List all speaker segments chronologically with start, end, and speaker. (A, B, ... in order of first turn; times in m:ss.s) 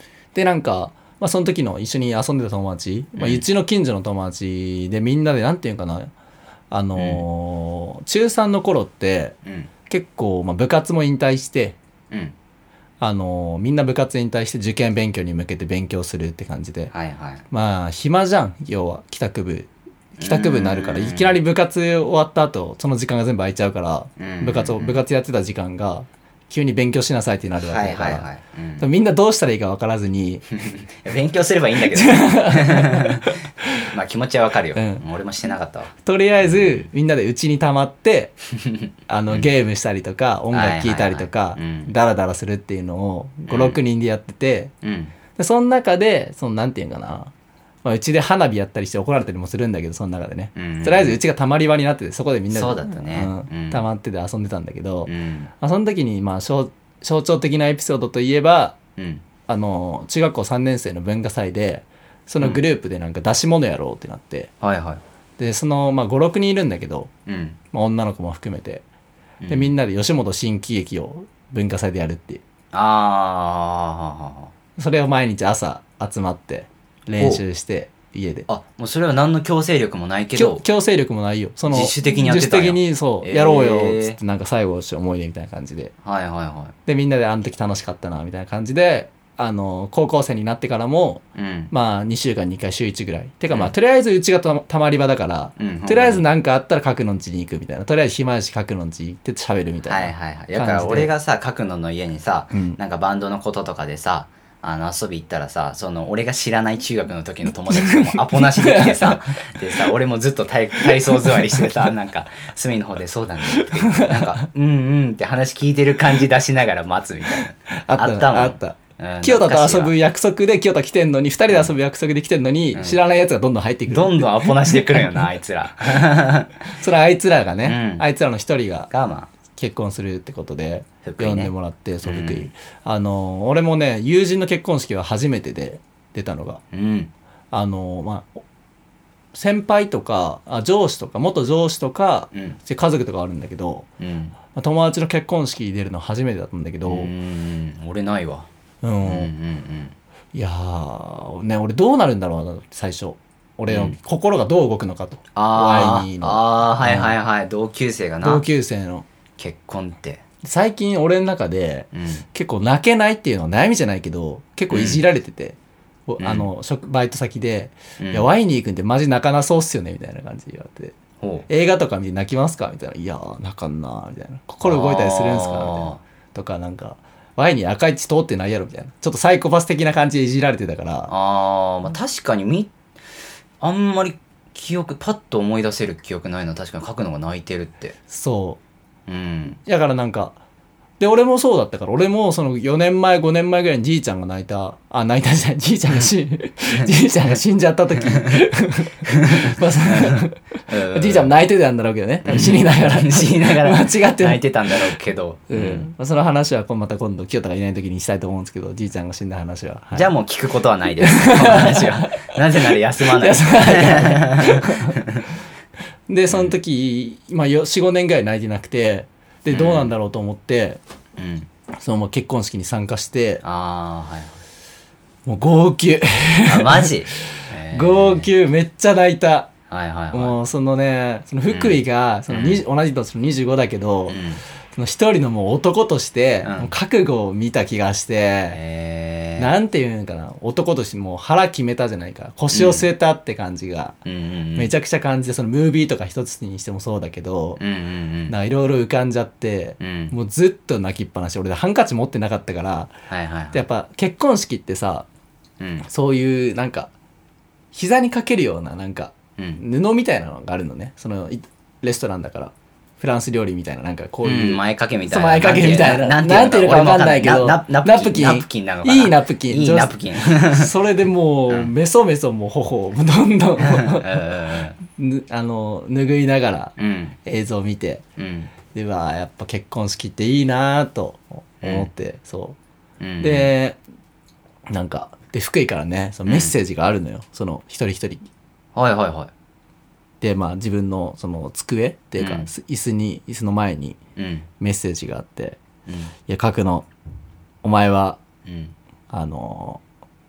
0:00.3-0:06.1 A
0:03.2-0:03.4 B
0:06.7-0:09.4 A
0:07.0-0:07.2 B
0:09.4-0:09.7 B
0:09.9-0:11.8 A
0:13.0-0:16.9 A
0:16.9-0:17.4 B
0:17.5-0:28.3 A
0:20.2-0:21.4 B
0:24.2-0:25.0 B
0:27.6-0:28.9 B
0:28.8-0:30.4 A
0:30.6-0:36.9 B
0:31.9-0:33.9 A
0:34.8-0:35.0 A
0:36.0-0:38.4 A
0:38.6-0:39.5 B
0:39.1-0:44.7 A
0:40.5-0:41.9 B
0:43.5-0:43.8 B
0:44.8-0:45.1 B
0:45.4-0:47.3 A
0:47.8-0:58.8 A
0:50.6-0:51.2 B
0:52.5-0:53.8 B
0:55.1-0:55.5 B
0:59.0-0:59.2 B
0:59.5-1:04.5 A
1:04.6-1:05.0 B
1:05.4-1:07.1 A
1:07.3-1:07.6 B
1:07.7-1:08.8 A
1:09.4-1:09.7 B
1:09.5-1:12.4 A
1:12.7-1:14.5 B
1:14.8-1:18.5 A
1:18.5-1:20.6 B
1:20.4-1:25.9 A
1:21.7-1:24.2 B
1:26.0-1:26.8 B
1:26.9-1:41.1 A
1:31.4-1:31.7 B
1:35.6-1:36.2 B
1:39.9-2:00.0 B
1:42.5-1:42.8 A
1:47.5-1:49.9 A
1:50.8-1:51.9 A
1:53.5-1:54.4 A
1:57.7-2:05.2 A
2:02.7-2:03.0 B
2:03.9-2:06.6 B
2:06.7-2:08.9 A
2:07.6-2:08.0 B
2:08.9-2:09.3 B
2:09.5-2:16.6 A
2:11.0-2:11.5 B
2:12.0-2:12.5 B
2:16.7-2:17.1 B
2:17.5-2:18.4 A
2:19.3-2:23.9 A
2:24.0-2:24.4 B
2:24.5-2:27.1 A
2:26.8-2:28.5 B
2:28.8-2:29.3 A
2:29.0-2:30.0 B
2:30.3-2:37.2 A
2:33.7-2:34.0 B
2:35.4-2:38.4 B
2:38.2-2:39.1 A
2:39.4-2:40.2 B
2:40.4-2:45.6 A
2:41.9-2:42.2 B
2:44.7-2:45.0 B
2:46.1-2:51.0 A
2:46.2-2:46.5 B
2:48.0-2:48.3 B
2:51.2-2:51.5 B
2:51.5-3:01.1 A
2:54.6-2:56.0 B
3:01.1-3:02.7 B
3:03.6-3:08.0 B
3:08.1-3:08.6 A
3:09.1-3:09.6 B
3:09.6-3:10.4 A
3:11.0-3:25.0 A
3:18.0-3:18.4 B
3:19.1-3:21.3 B
3:22.2-3:25.9 B
3:25.5-3:30.1 A
3:29.9-3:35.3 B
3:31.0-3:35.0 A
3:36.1-3:40.8 A
3:36.3-3:36.6 B
3:39.5-3:39.9 B
3:41.2-3:41.5 B
3:41.8-3:43.4 A
3:43.4-3:44.4 B
3:45.3-3:49.5 A
3:46.5-3:48.3 B
3:49.7-3:50.4 B
3:50.1-3:54.2 A
3:51.5-3:52.6 B
3:54.1-3:54.4 B
3:54.8-3:58.6 A
3:56.4-3:56.7 B
3:58.5-3:59.5 B
3:59.4-4:04.0 A
4:02.5-4:02.9 B
4:04.0-4:04.7 B
4:04.6-4:07.6 A
4:07.6-4:08.4 B
4:08.3-4:12.9 A
4:09.8-4:10.1 B
4:13.1-4:13.6 B
4:13.5-4:15.1 A
4:15.6-4:15.9 B
4:15.8-4:16.9 A
4:17.7-4:34.2 A
4:19.4-4:19.6 B
4:24.2-4:30.7 B
4:33.6-4:34.8 B
4:34.9-4:36.7 A
4:36.8-4:37.2 B
4:37.2-4:38.0 A
4:38.2-4:38.5 B
4:38.7-4:42.6 A
4:41.6-4:41.9 B
4:43.0-4:43.5 B
4:43.2-4:43.8 A
4:44.7-4:48.2 A
4:46.3-4:46.5 B
4:48.8-4:49.3 B
4:50.2-4:54.0 A
4:52.2-4:52.5 B
4:54.2-4:54.5 B
4:54.6-4:55.6 A
4:55.9-4:56.1 B
4:56.3-4:56.9 A
4:57.6-4:58.2 A
4:58.5-4:58.7 B
4:59.1-4:59.8 A